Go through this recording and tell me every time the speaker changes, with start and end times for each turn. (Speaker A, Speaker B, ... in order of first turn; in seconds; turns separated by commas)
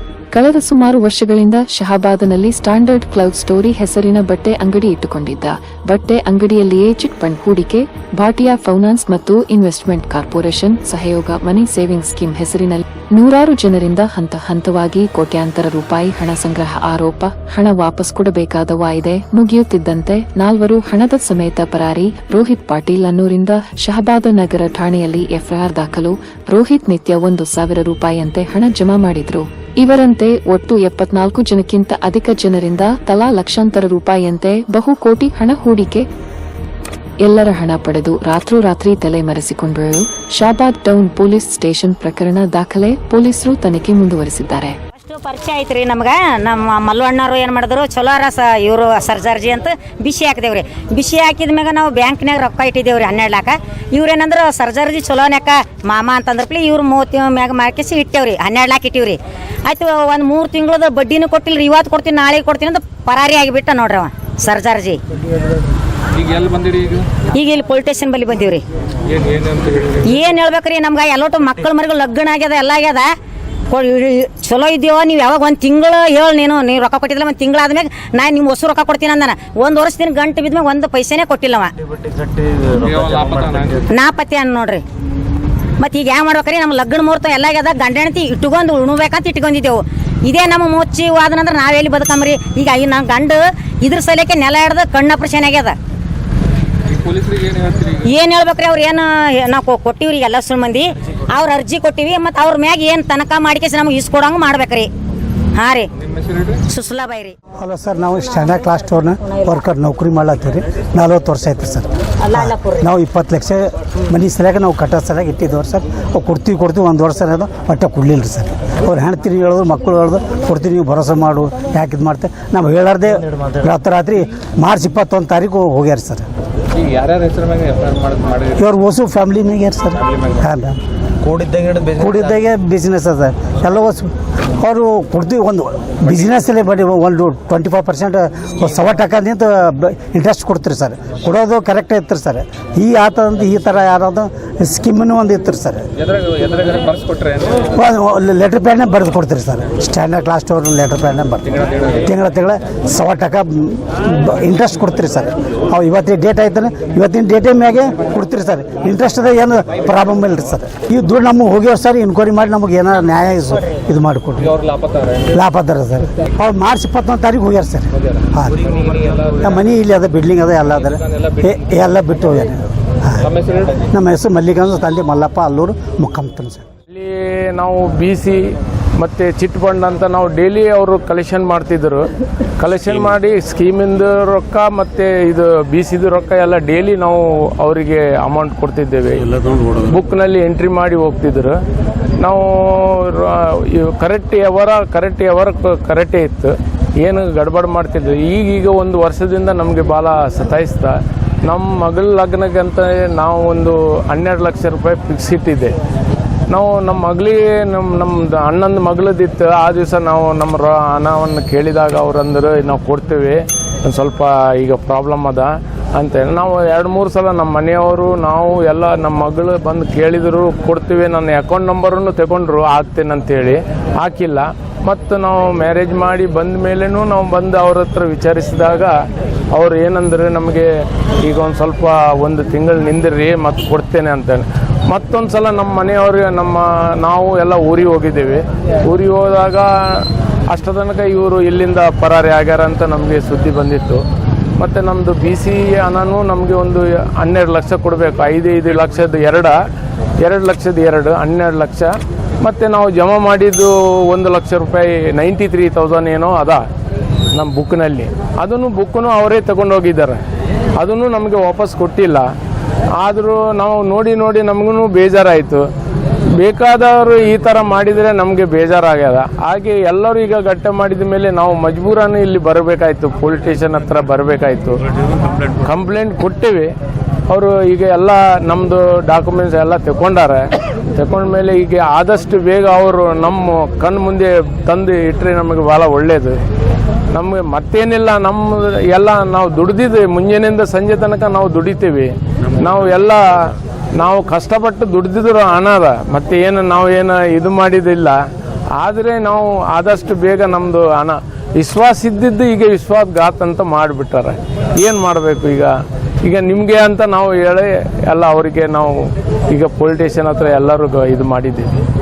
Speaker A: 0.3-36.1, Speaker A: 37.2-44.8, Speaker B: 45.0-65.0, Speaker C: 66.1-67.2, Speaker B: 67.2-68.6, Speaker C: 69.1-70.0, Speaker B: 70.0-73.1, Speaker B: 73.7-81.7, Speaker C: 82.0-83.9, Speaker B: 83.9-84.8, Speaker B: 85.8-95.8, Speaker C: 96.9-98.0, Speaker B: 98.0-104.9, Speaker B: 105.5-105.9, Speaker C: 106.1-106.6, Speaker B: 106.7-107.3, Speaker D: 107.6-126.2, Speaker B: 112.3-112.6, Speaker C: 126.7-128.6, Speaker D: 128.5-130.8, Speaker C: 131.2-132.2, Speaker D: 131.9-145.8, Speaker C: 146.0-147.7, Speaker D: 147.6-164.6, Speaker C: 164.6-165.2, Speaker D: 165.3-168.8, Speaker C: 168.6-169.4, Speaker D: 169.3-173.3, Speaker C: 173.3-173.8, Speaker D: 173.9-176.6, Speaker E: 176.9-182.1, Speaker E: 182.6-191.6, Speaker E: 192.2-205.8, Speaker E: 206.5-228.9, Speaker E: 229.5-230.7, Speaker E: 231.2-244.0, Speaker E: 244.6-249.6, Speaker E: 250.2-256.6, Speaker E: 257.3-260.2, Speaker E: 260.8-262.3, Speaker E: 263.0-265.6, Speaker E: 266.4-274.8, Speaker E: 275.4-276.7, Speaker E: 277.3-286.4, Speaker E: 287.1-298.2, Speaker E: 298.8-311.8